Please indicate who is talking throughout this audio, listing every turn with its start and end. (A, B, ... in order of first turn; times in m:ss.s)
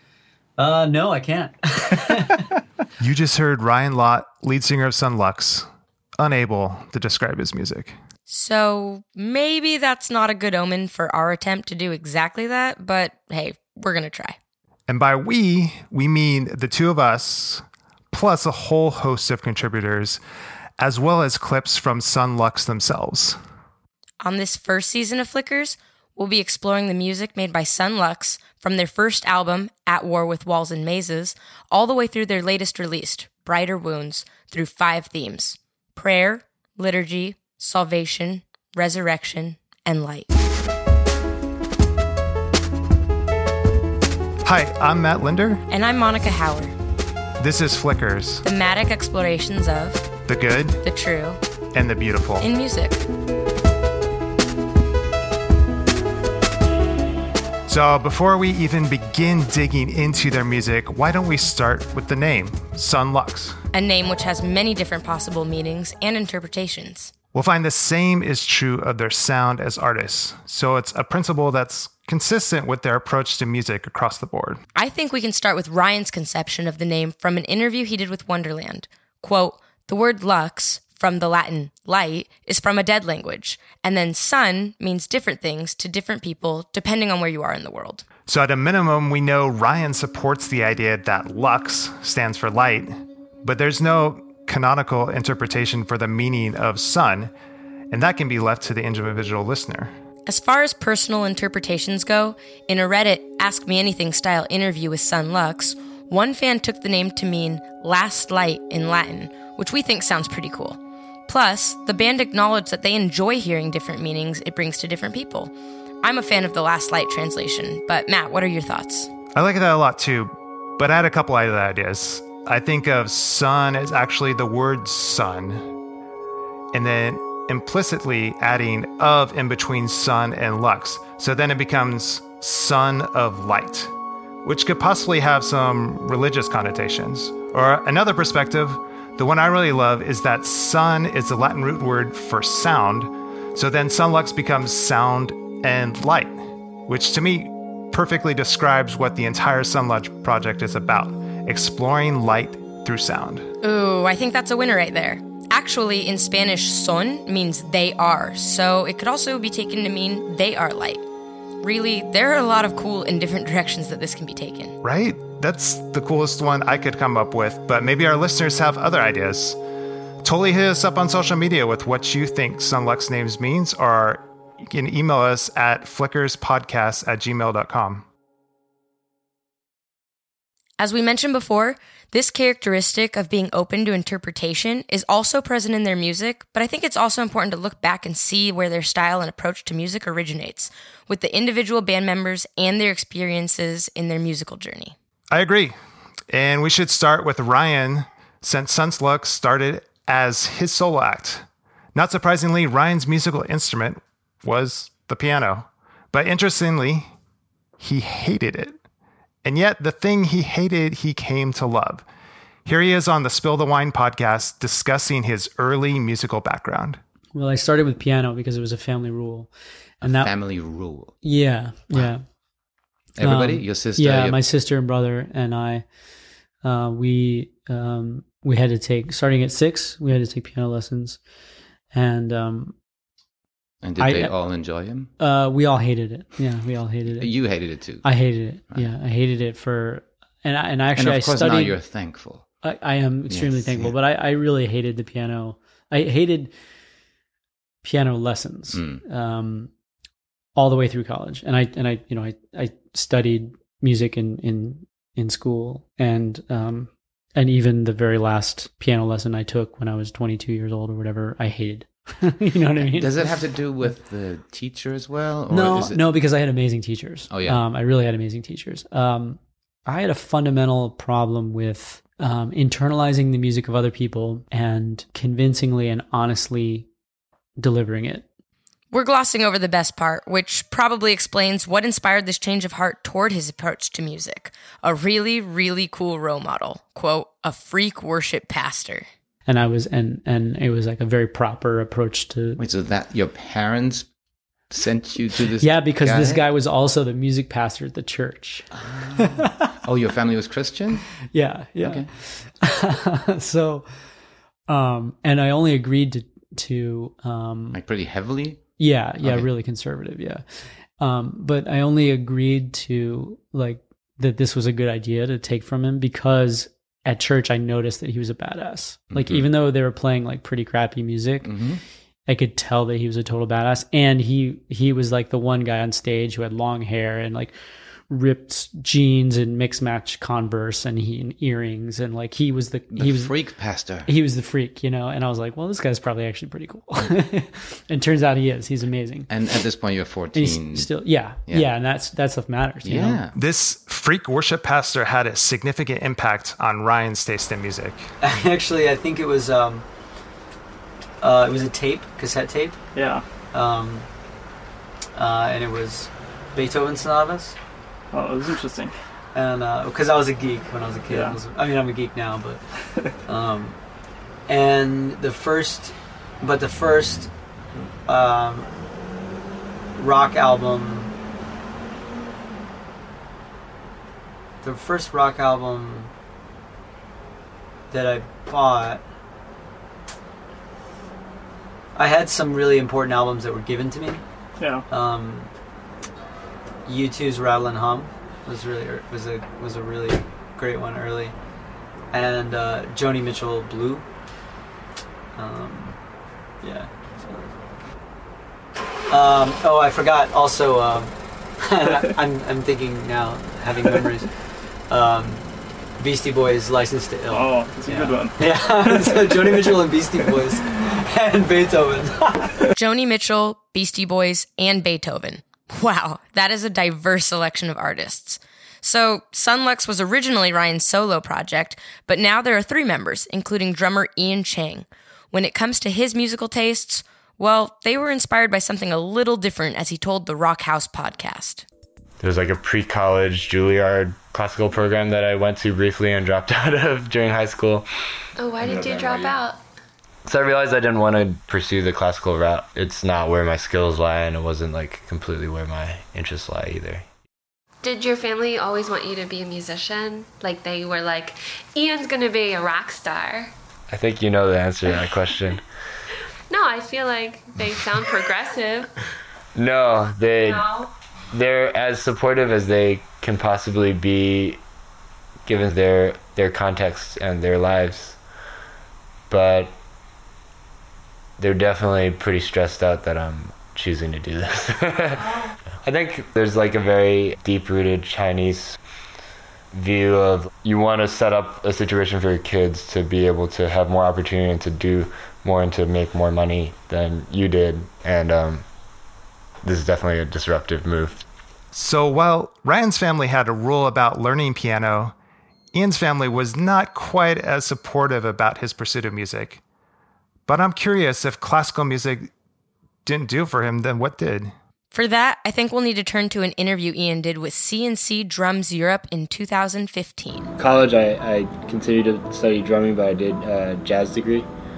0:00.6-0:01.5 A
0:03.0-0:05.7 B
0:06.2-0:08.0 B
0:08.3-0:14.4 C
0:14.9-0:20.2 B
0:20.8-0:23.4 B
0:24.2-0:40.3 C
0:44.4-0:45.6 B
0:45.7-0:46.7 C
0:47.4-0:48.4 B
0:48.4-0:50.1 C
0:50.3-0:50.8 B
0:50.8-0:51.4 C
0:51.7-0:52.4 B
0:52.4-0:53.0 C
0:57.7-1:03.6 B
1:03.7-1:07.1 C
1:07.3-1:14.6 B
1:14.8-1:28.0 C
1:28.3-1:37.3 B
1:37.9-1:39.9 B
1:40.2-1:59.1 C
1:59.3-2:05.7 B
2:06.7-2:13.9 B
2:14.4-2:33.5 B
2:33.6-2:41.0 C
2:41.6-2:44.7 C
2:44.8-2:49.6 B
2:50.2-2:58.0 B
3:00.8-3:14.9 C
3:15.3-3:15.7 B
3:16.3-3:27.1 B
3:27.8-3:28.8 B
3:29.4-3:32.0 B
3:32.6-3:37.0 B
3:37.3-3:40.7 D
3:40.0-3:41.2 E
3:41.2-3:42.2 D
3:43.1-3:44.4 E
3:43.2-3:45.9 D
3:46.6-3:51.2 D
3:51.9-3:52.8 D
3:53.8-3:55.1 E
3:54.0-4:02.0 D
3:57.1-3:58.9 E
4:00.9-4:02.6 E
4:02.6-4:06.5 D
4:03.3-4:04.0 E
4:07.8-4:09.7 D
4:08.7-4:09.0 E
4:10.5-4:23.3 D
4:22.8-4:26.2 E
4:25.5-4:36.9 D
4:27.3-4:27.6 E
4:37.6-4:38.3 D
4:38.9-4:49.1 C
4:49.4-4:52.6 D
4:52.6-4:54.1 E
4:54.7-4:56.4 E
4:55.6-4:59.7 D
4:58.8-5:01.1 E
5:01.3-5:03.9 D
5:01.8-5:02.1 E
5:04.7-5:07.8 D
5:07.7-5:09.5 E
5:08.8-5:27.5 D
5:19.1-5:19.5 E
5:21.4-5:21.8 E
5:28.1-5:39.3 D
5:32.9-5:34.1 E
5:39.3-5:41.7 E
5:40.3-5:43.2 D
5:42.8-5:43.4 E
5:43.3-5:48.1 B
5:48.2-5:49.8 A
5:51.2-5:52.8 A
5:52.9-5:53.2 F
5:53.5-5:54.0 A
5:55.1-5:57.6 A
5:58.1-5:58.9 F
5:59.3-6:02.4 A
6:01.1-6:01.4 F
6:03.3-6:03.8 A
6:04.5-6:07.3 A
6:08.1-6:08.7 A
6:10.0-6:11.1 A
6:14.6-6:16.1 A
6:17.9-6:19.0 A
6:21.9-6:24.2 A
6:24.6-6:24.8 F
6:24.9-6:25.5 A
6:26.8-6:31.3 A
6:32.1-6:34.0 A
6:35.4-6:36.0 A
6:36.6-6:37.5 A
6:39.1-6:41.1 A
6:41.6-6:44.2 A
6:44.9-6:45.4 A
6:46.0-6:50.4 A
6:47.3-6:49.8 F
6:48.9-6:49.7 D
6:51.1-6:52.1 A
6:52.8-7:11.6 C
7:12.2-7:17.9 G
7:18.4-7:19.6 H
7:18.6-7:19.4 I
7:20.2-7:27.1 G
7:27.8-7:33.5 H
7:33.9-7:35.6 G
7:34.8-7:35.4 H
7:36.5-7:38.9 H
7:39.6-7:40.7 G
7:40.4-7:40.9 H
7:41.3-7:44.6 G
7:45.4-7:48.2 G
7:49.3-7:49.8 G
7:51.4-7:55.3 G
7:55.2-7:55.5 H
7:55.8-7:58.8 G
7:59.7-8:08.6 G
8:09.6-8:11.2 G
8:11.7-8:15.1 B
8:15.7-8:19.6 B
8:20.5-8:22.3 B
8:23.0-8:24.5 B
8:24.9-8:30.5 C
8:30.6-8:34.5 I